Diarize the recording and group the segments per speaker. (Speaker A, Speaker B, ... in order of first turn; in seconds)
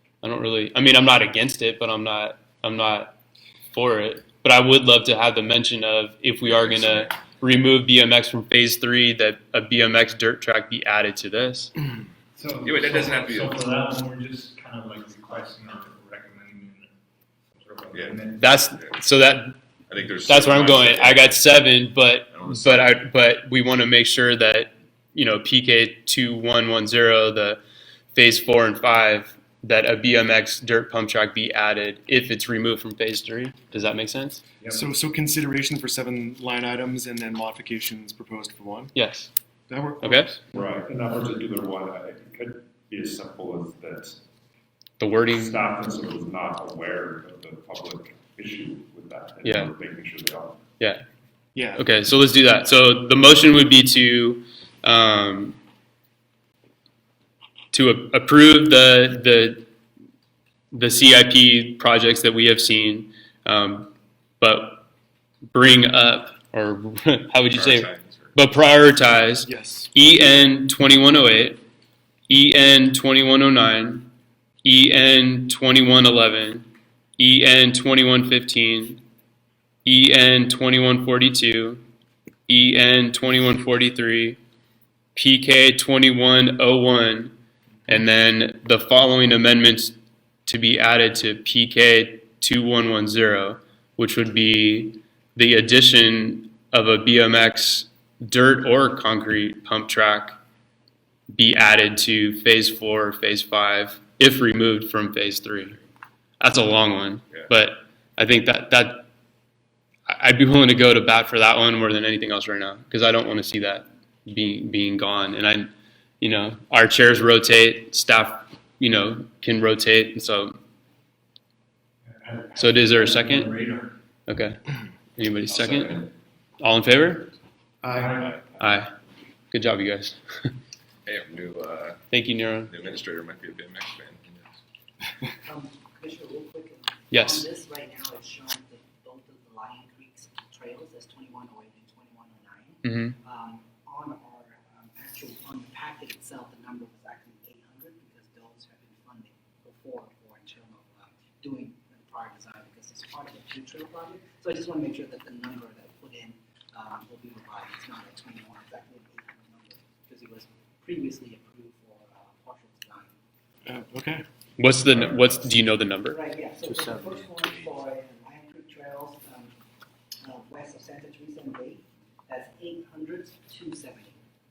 Speaker A: 0.2-3.2, 3.7-11.7, 18.4-19.6, 20.3-27.6, 28.1-34.4, 38.9-39.3, 40.0-40.3, 45.0-45.6, 49.4-49.7, 50.8-51.0, 51.8-55.6, 57.7-59.7, 60.7-64.8, 65.5-71.6, 72.3-74.1, 74.6-76.7, 77.2-79.0, 79.8-81.8, 82.5-84.4, 85.2-87.3, 87.9-90.0, 90.5-100.4, 101.3-105.8, 106.4-109.1, 110.1-115.7, 116.2-120.6, 122.6-123.5, 124.3-124.6, 125.2-126.1, 126.6-127.3, 128.6-128.9, 129.5-130.6, 132.1-132.7, 137.1-137.5, 142.8-143.2, 164.6-166.2
Speaker B: 6.5-7.1, 12.6-13.7, 17.9-18.9, 19.9-21.4, 22.3-23.0, 67.5-68.4, 125.5-126.0, 128.1-128.4, 131.1-132.0, 132.7-134.5
Speaker C: 12.4-16.9, 17.6-18.6
Speaker D: 34.7-38.9, 39.7-40.5, 51.5-51.8, 69.5-69.9, 123.4-123.8, 127.8-128.2, 163.7-164.2
Speaker E: 40.5-44.2, 45.3-50.6
Speaker F: 135.4-163.1, 166.1-169.5, 170.2-174.2